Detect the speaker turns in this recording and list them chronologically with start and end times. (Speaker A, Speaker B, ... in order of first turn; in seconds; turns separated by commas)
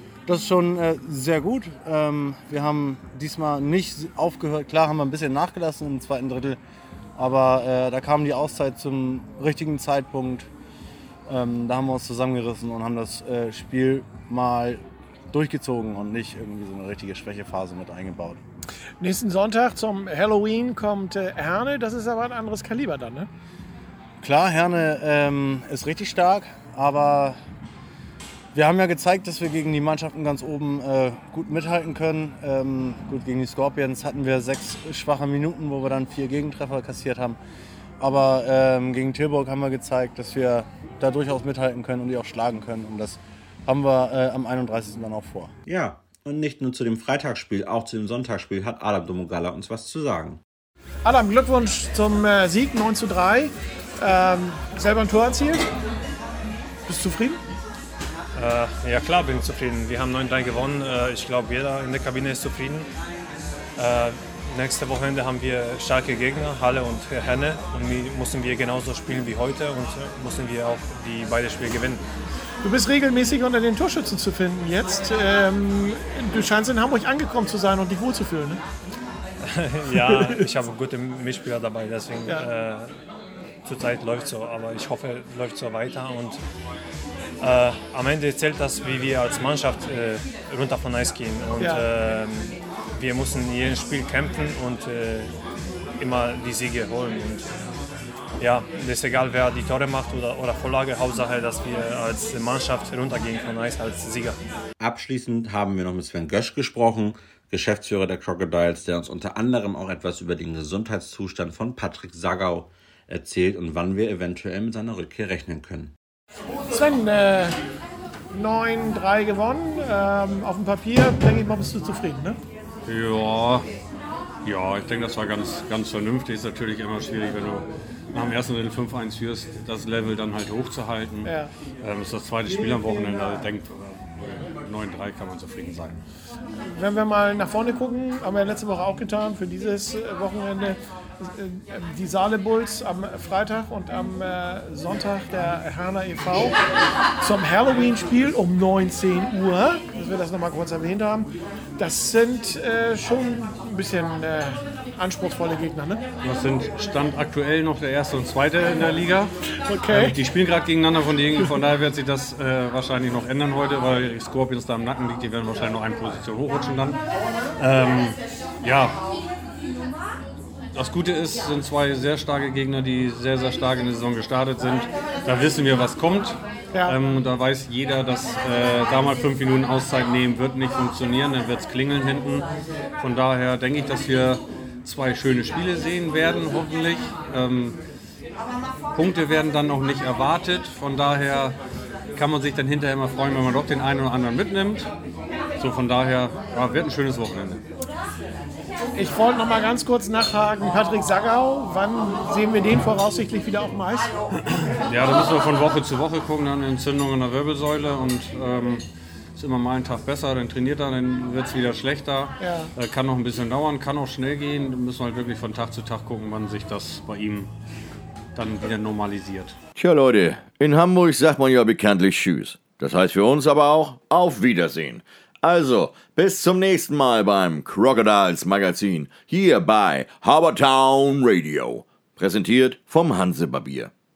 Speaker A: 0.2-6.6, Speaker A: 7.2-10.5, Speaker A: 11.3-18.4, Speaker B: 19.0-23.3, Speaker A: 24.2-27.4, Speaker A: 28.5-37.4, Speaker A: 38.0-45.5, Speaker C: 45.6-50.4, Speaker B: 51.0-55.7, Speaker B: 56.9-57.4, Speaker D: 58.3-62.9, Speaker D: 63.8-72.0, Speaker B: 72.6-78.6, Speaker D: 79.4-82.9, Speaker B: 79.9-80.5, Speaker D: 83.6-86.4, Speaker D: 87.4-95.3, Speaker B: 91.6-91.8, Speaker D: 96.0-97.5, Speaker D: 98.4-104.4, Speaker C: 104.8-115.9, Speaker B: 116.7-117.6, Speaker B: 118.3-122.4, Speaker E: 122.9-123.6, Speaker E: 124.4-136.0, Speaker B: 131.2-131.5, Speaker B: 136.7-146.6, Speaker B: 147.2-156.0, Speaker E: 156.2-159.3, Speaker B: 159.7-160.2, Speaker E: 159.9-167.0, Speaker E: 167.6-169.0, Speaker E: 170.7-182.5, Speaker E: 183.0-187.8, Speaker E: 188.9-191.6, Speaker E: 192.2-194.9, Speaker E: 195.6-197.6, Speaker B: 198.9-204.1, Speaker E: 204.8-208.8, Speaker E: 209.3-217.5, Speaker B: 212.4-212.7, Speaker E: 218.3-219.5, Speaker F: 219.8-233.9